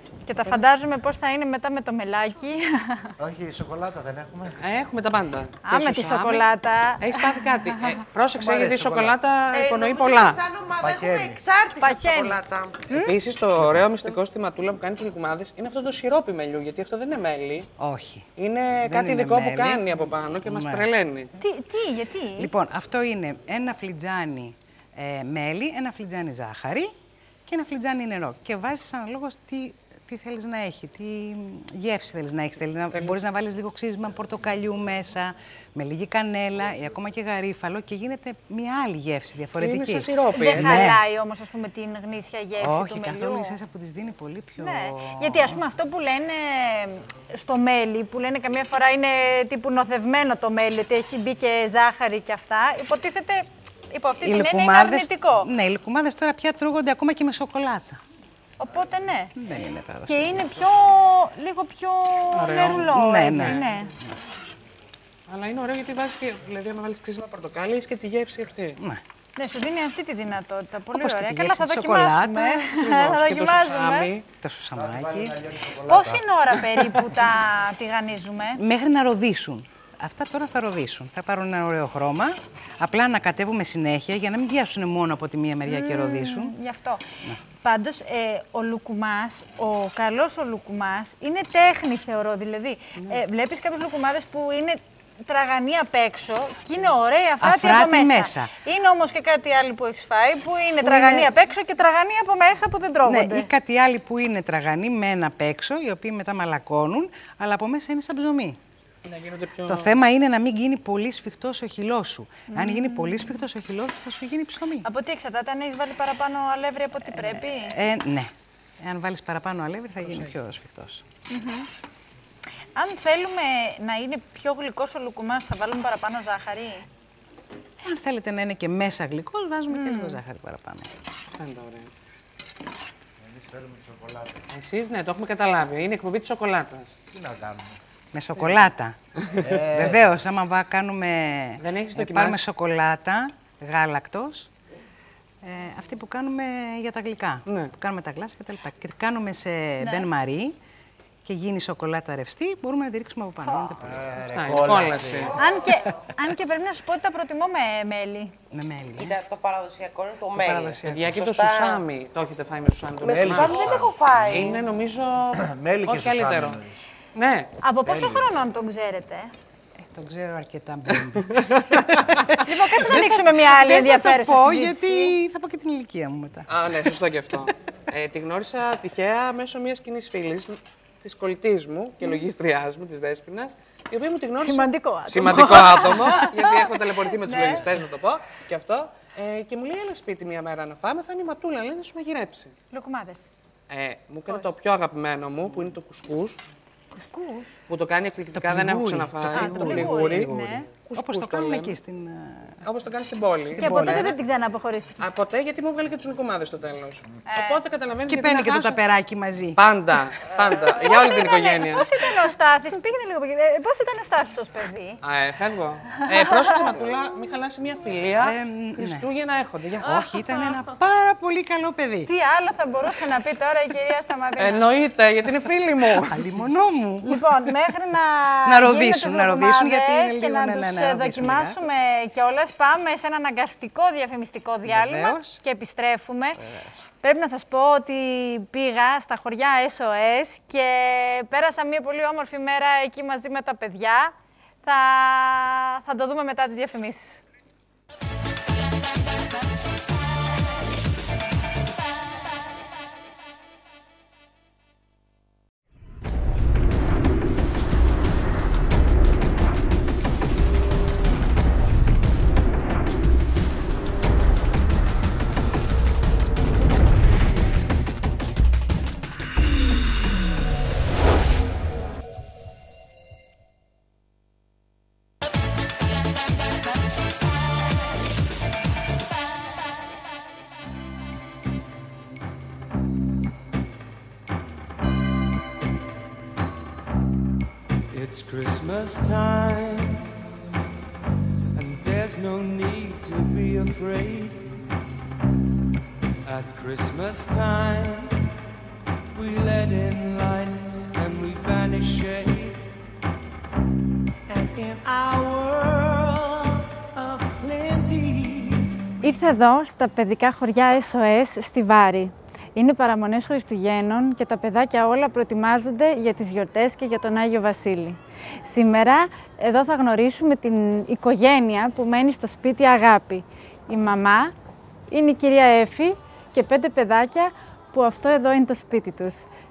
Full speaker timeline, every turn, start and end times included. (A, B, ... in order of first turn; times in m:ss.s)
0:00.2-0:03.1 A
0:03.2-0:04.6 B
0:04.6-0:06.4 C
0:05.6-0:07.8 A
0:07.0-0:10.4 C
0:08.4-0:09.2 B
0:09.5-0:12.8 D
0:10.8-0:11.4 B
0:11.8-0:12.4 A
0:12.9-0:17.7 C
0:17.8-0:18.3 E
0:18.4-0:21.3 C
0:18.8-0:20.8 E
0:21.4-0:22.5 A
0:22.4-0:26.9 E
0:27.5-0:41.0 E
0:39.6-0:40.9 C
0:40.4-0:43.6 A
0:42.6-0:45.6 E
0:44.6-0:55.5 A
0:54.2-0:58.0 E
0:58.6-0:59.3 A
0:59.4-1:00.4 E
1:00.0-1:03.9 A
1:02.3-1:03.7 C
1:02.8-1:04.1 E
1:05.3-1:08.8 C
1:09.4-1:14.1 A
1:10.9-1:12.6 E
1:12.6-1:14.2 C
1:14.4-1:15.3 E
1:14.9-1:16.2 B
1:15.8-1:18.6 A
1:18.6-1:26.5 E
1:25.7-1:43.5 A
1:37.4-1:38.5 E
1:40.8-1:41.3 E
1:43.0-1:48.6 E
1:49.0-1:49.9 C
1:49.6-1:54.8 E
1:52.5-1:53.3 A
1:54.8-1:57.8 A
1:57.1-1:58.3 E
1:58.8-2:01.0 E
2:00.0-2:00.3 C
2:01.3-2:01.7 A
2:02.8-2:06.8 A
2:07.8-2:10.9 E
2:09.7-2:10.2 A
2:11.4-2:11.9 C
2:13.3-2:14.4 B
2:14.5-2:16.9 C
2:17.1-2:17.8 B
2:18.1-2:18.9 E
2:19.4-2:20.2 B
2:19.7-2:24.5 E
2:21.6-2:22.5 C
2:25.4-2:30.5 E
2:27.4-2:27.7 C
2:29.8-2:30.1 A
2:31.2-2:34.0 E
2:33.8-2:35.4 B
2:34.3-2:35.3 C
2:35.4-2:38.3 A
2:38.5-2:39.1 E
2:39.0-2:41.8 D
2:40.4-2:41.1 E
2:40.8-2:46.6 C
2:43.0-2:44.6 D
2:43.1-2:44.4 B
2:45.3-2:46.8 B
2:47.1-2:47.5 C
2:47.6-2:49.3 A
2:47.8-2:48.2 B
2:49.8-2:56.5 E
2:52.4-2:55.1 A
2:56.5-3:12.5 C
3:04.4-3:07.6 A
3:12.7-3:13.2 A
3:13.7-3:16.4 C
3:16.9-3:17.5 A
3:17.7-3:21.8 C
3:18.3-3:20.1 E
3:19.3-3:20.6 A
3:20.9-3:22.6 E
3:22.6-3:24.2 C
3:23.5-3:24.1 E
3:23.6-3:25.1 A
3:25.0-3:28.9 C
3:27.3-3:27.6 A
3:28.1-3:29.6 E
3:29.5-3:32.0 C
3:30.5-3:35.0 A
3:35.0-3:40.5 C
3:38.2-3:39.0 E
3:39.8-3:42.1 E
3:42.0-3:44.6 A
3:44.4-3:46.2 C
3:46.1-3:47.2 E
3:47.0-3:56.4 A
3:48.5-3:51.6 E
3:54.6-3:55.4 E
3:56.4-3:56.8 E
3:57.0-4:04.1 A
4:04.6-4:07.2 A
4:47.9-4:50.1 F
4:51.5-4:54.6 F
4:56.2-4:58.2 F
4:59.1-5:02.6 F
5:04.3-5:08.7 F
5:09.0-5:24.3 A
5:24.9-5:29.3 A